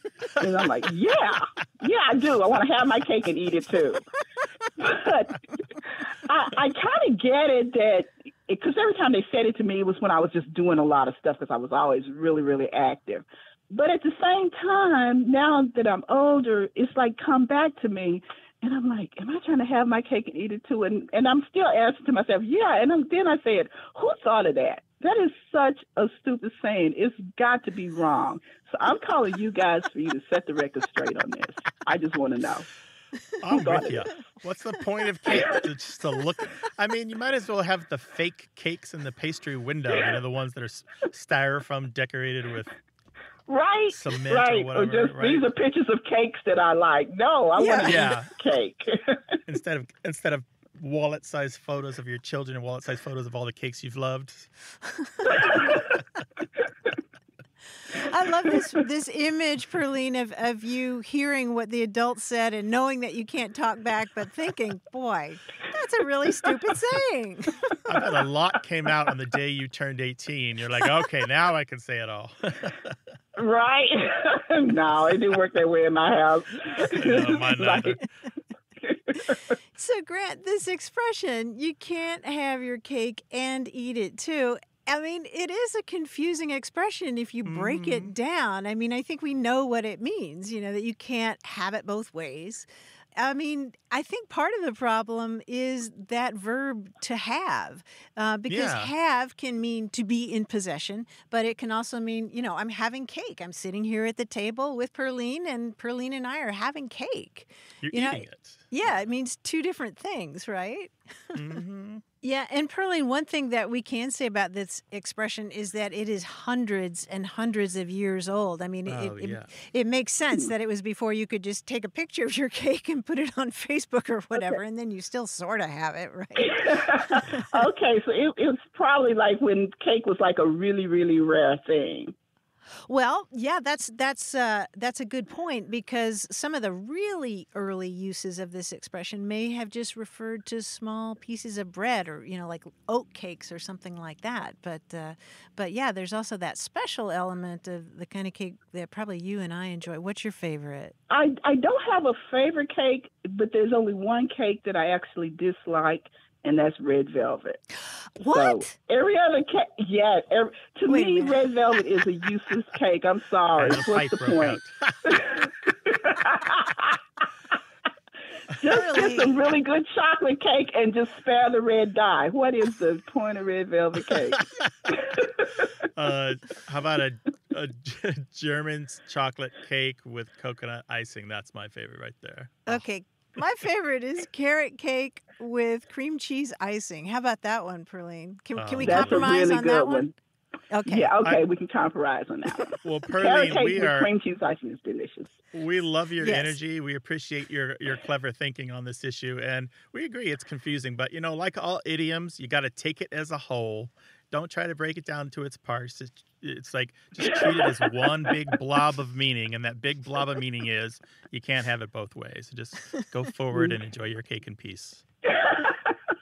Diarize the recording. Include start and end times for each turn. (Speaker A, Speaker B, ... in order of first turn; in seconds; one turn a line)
Speaker A: 0.3-4.0
Speaker A: 4.8-32.7
Speaker B: 33.4-42.7
Speaker A: 33.5-33.9
Speaker A: 35.3-35.6
Speaker A: 43.5-49.4
Speaker B: 43.9-45.5
Speaker C: 47.5-48.2
Speaker B: 47.9-48.3
Speaker B: 49.5-54.5
Speaker C: 55.0-55.3
Speaker A: 55.3-55.8
Speaker C: 57.9-67.7
Speaker B: 67.9-73.0
Speaker A: 73.4-78.0
Speaker B: 76.9-78.1
Speaker A: 78.8-79.4
Speaker C: 79.7-111.6
Speaker B: 87.4-88.1
Speaker B: 98.5-98.9
Speaker B: 107.8-108.7
Speaker B: 111.3-112.0
Speaker C: 112.2-127.5
Speaker B: 118.8-119.5
Speaker A: 126.4-132.1
Speaker C: 132.9-150.9
Speaker A: 151.1-157.6
Speaker C: 158.2-158.7
Speaker A: 158.3-167.0
Speaker C: 160.9-161.4
Speaker B: 163.6-165.0
Speaker A: 168.6-175.7
Speaker C: 168.7-169.4
Speaker B: 175.9-182.8
Speaker C: 182.7-190.1
Speaker B: 188.6-189.3
Speaker A: 188.8-190.1
Speaker C: 190.7-191.2
Speaker A: 190.8-195.4
Speaker B: 192.8-194.1
Speaker B: 195.5-215.0
Speaker C: 196.2-196.6
Speaker A: 215.3-215.9